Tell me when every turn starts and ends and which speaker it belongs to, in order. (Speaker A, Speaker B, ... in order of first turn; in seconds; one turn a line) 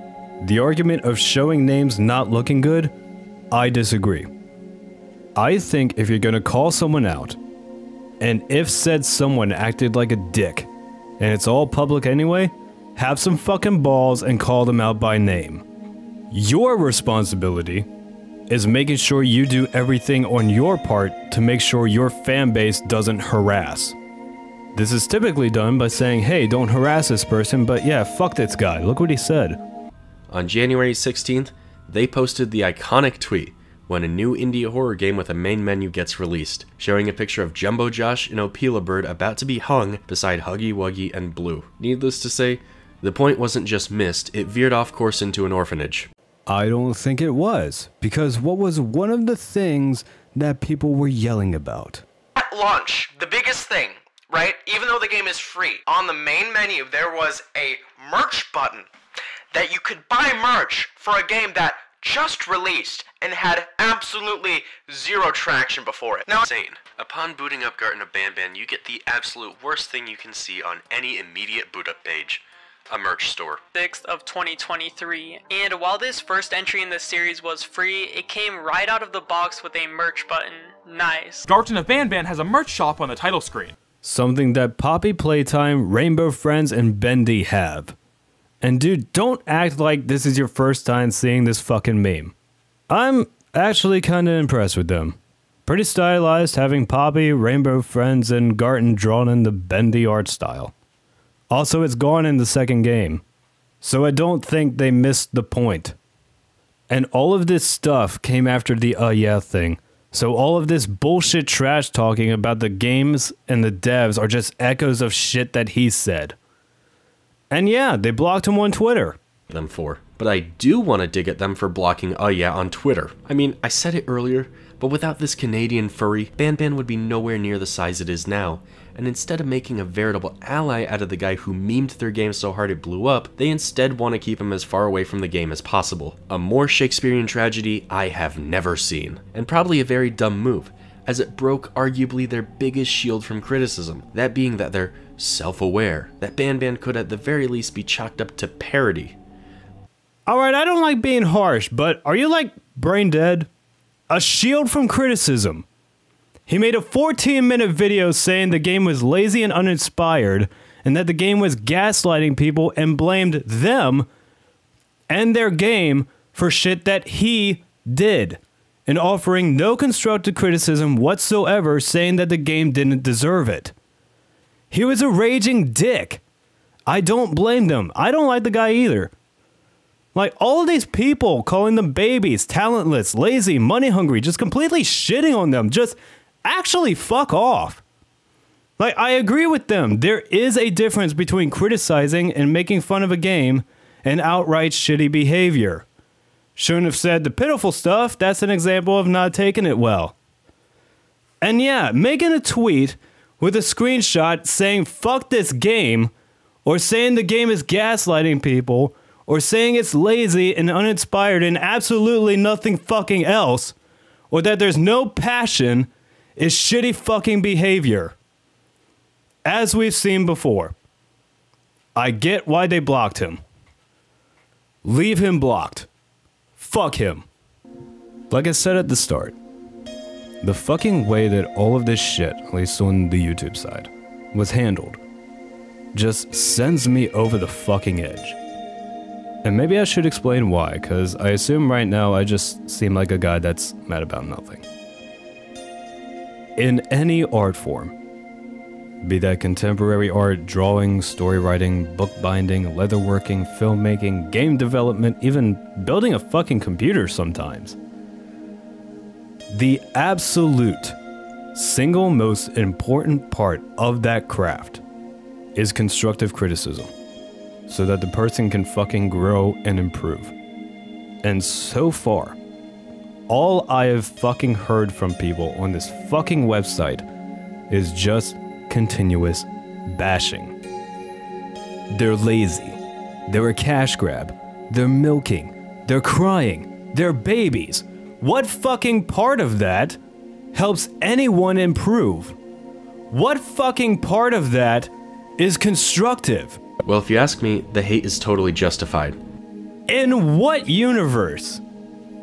Speaker A: 0.4-2.9
Speaker A: 3.5-4.3
Speaker A: 5.3-7.4
Speaker A: 8.2-10.7
Speaker A: 11.2-15.6
Speaker A: 16.3-17.9
Speaker A: 18.5-23.9
Speaker A: 24.7-29.6
Speaker B: 30.3-46.1
Speaker A: 46.5-52.0
Speaker C: 52.4-58.9
Speaker C: 59.5-66.5
Speaker B: 66.4-73.6
Speaker D: 73.7-81.5
Speaker E: 81.5-83.8
Speaker A: 84.0-88.0
Speaker A: 88.6-92.3
Speaker A: 92.9-100.7
Speaker A: 101.5-103.2
Speaker A: 103.8-106.0
Speaker A: 106.9-116.3
Speaker A: 117.5-119.2
Speaker B: 119.5-149.2
Speaker A: 150.3-153.5
Speaker A: 154.1-155.7
Speaker A: 156.5-164.1
Speaker A: 165.1-173.7
Speaker A: 174.7-176.2
Speaker A: 176.9-179.1
Speaker A: 180.1-187.8
Speaker A: 188.8-195.8
Speaker A: 196.6-200.2
Speaker A: 201.4-206.1
Speaker A: 206.6-213.7
Speaker A: 214.3-218.2
Speaker A: 219.4-220.7
Speaker A: 221.9-223.4
Speaker A: 224.8-225.9
Speaker A: 226.6-227.2
Speaker A: 228.3-229.3
Speaker A: 230.4-235.0
Speaker A: 235.9-238.4
Speaker A: 239.4-244.7
Speaker A: 246.6-247.9
Speaker A: 249.0-257.8
Speaker A: 259.5-261.0
Speaker A: 261.5-264.8
Speaker A: 265.5-266.9
Speaker A: 267.7-270.3
Speaker A: 271.2-272.4
Speaker A: 273.3-277.1
Speaker A: 277.7-280.6
Speaker A: 281.9-290.0
Speaker A: 290.5-292.4
Speaker A: 293.1-296.6
Speaker B: 296.8-299.2
Speaker A: 299.9-301.6